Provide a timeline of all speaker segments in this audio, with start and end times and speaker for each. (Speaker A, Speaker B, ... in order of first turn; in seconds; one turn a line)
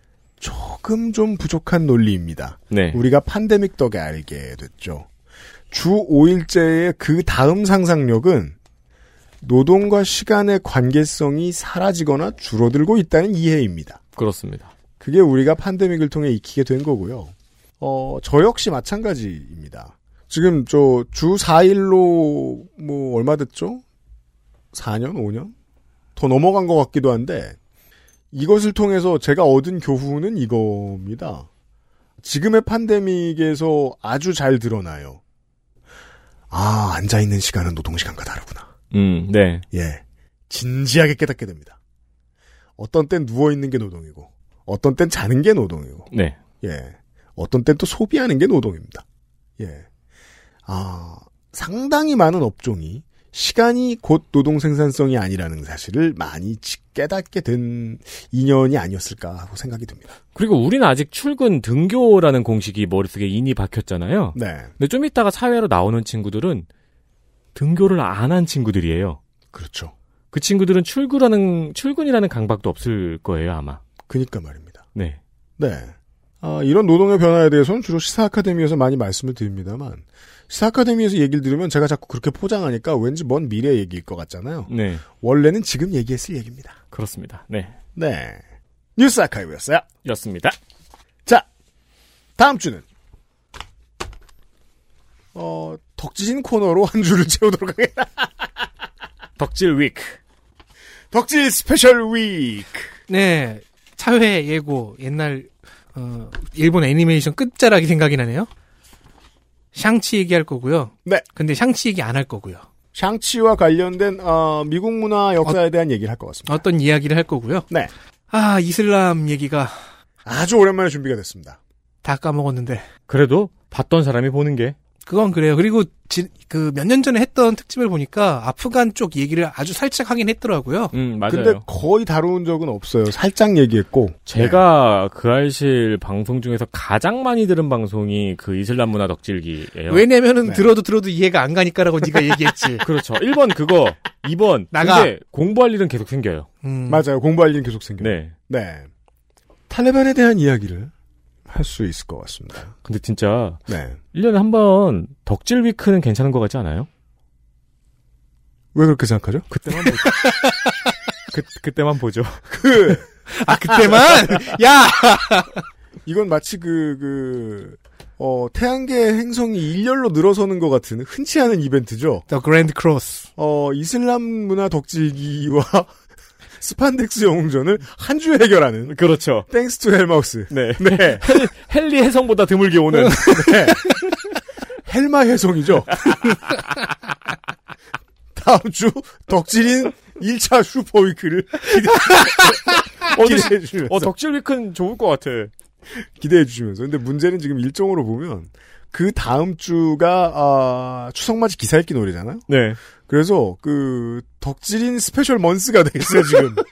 Speaker A: 0.4-5.1
Speaker B: 2.7-3.0
Speaker A: 5.7-8.6
Speaker A: 9.4-14.0
Speaker B: 14.2-14.7
Speaker A: 15.0-23.8
Speaker A: 24.7-25.5
Speaker A: 26.1-27.6
Speaker A: 28.3-31.5
Speaker A: 32.2-35.2
Speaker A: 36.5-38.7
Speaker B: 38.9-39.6
Speaker A: 39.7-41.8
Speaker A: 42.8-46.1
Speaker B: 46.1-46.4
Speaker A: 46.6-49.0
Speaker A: 49.6-49.9
Speaker A: 50.6-60.2
Speaker B: 60.3-66.7
Speaker A: 64.3-64.7
Speaker B: 67.5-69.2
Speaker A: 69.5-69.9
Speaker B: 70.3-73.8
Speaker A: 74.1-74.8
Speaker A: 75.6-86.8
Speaker B: 84.7-85.0
Speaker B: 86.9-87.7
Speaker A: 87.9-88.4
Speaker A: 89.0-89.8
Speaker B: 90.0-90.6
Speaker A: 92.4-92.8
Speaker A: 95.3-98.5
Speaker B: 99.4-100.2
Speaker A: 101.1-102.9
Speaker C: 103.1-108.5
Speaker C: 109.7-112.7
Speaker A: 112.9-116.6
Speaker C: 116.5-117.7
Speaker C: 118.3-119.9
Speaker A: 120.2-121.6
Speaker C: 122.0-122.9
Speaker B: 123.1-124.8
Speaker C: 125.0-130.9
Speaker B: 130.9-131.6
Speaker A: 131.3-134.6
Speaker B: 134.3-140.0
Speaker C: 139.9-142.8
Speaker B: 142.8-146.5
Speaker C: 144.7-145.1
Speaker C: 146.6-147.0
Speaker A: 146.9-148.9
Speaker B: 148.0-148.3
Speaker A: 149.7-150.9
Speaker A: 151.5-152.7
Speaker B: 152.8-153.6
Speaker A: 153.7-154.0
Speaker B: 154.1-156.9
Speaker A: 158.7-159.5
Speaker B: 159.5-160.1
Speaker C: 160.2-160.5
Speaker B: 161.3-162.4
Speaker A: 162.5-164.0
Speaker C: 163.3-165.6
Speaker A: 166.1-172.2
Speaker C: 172.3-173.3
Speaker A: 173.4-175.9
Speaker A: 176.6-181.5
Speaker B: 178.9-179.5
Speaker B: 180.5-183.9
Speaker A: 183.2-183.9
Speaker A: 184.9-186.1
Speaker A: 188.3-194.1
Speaker B: 193.1-195.5
Speaker A: 195.9-202.4
Speaker B: 202.5-202.8
Speaker A: 203.0-206.6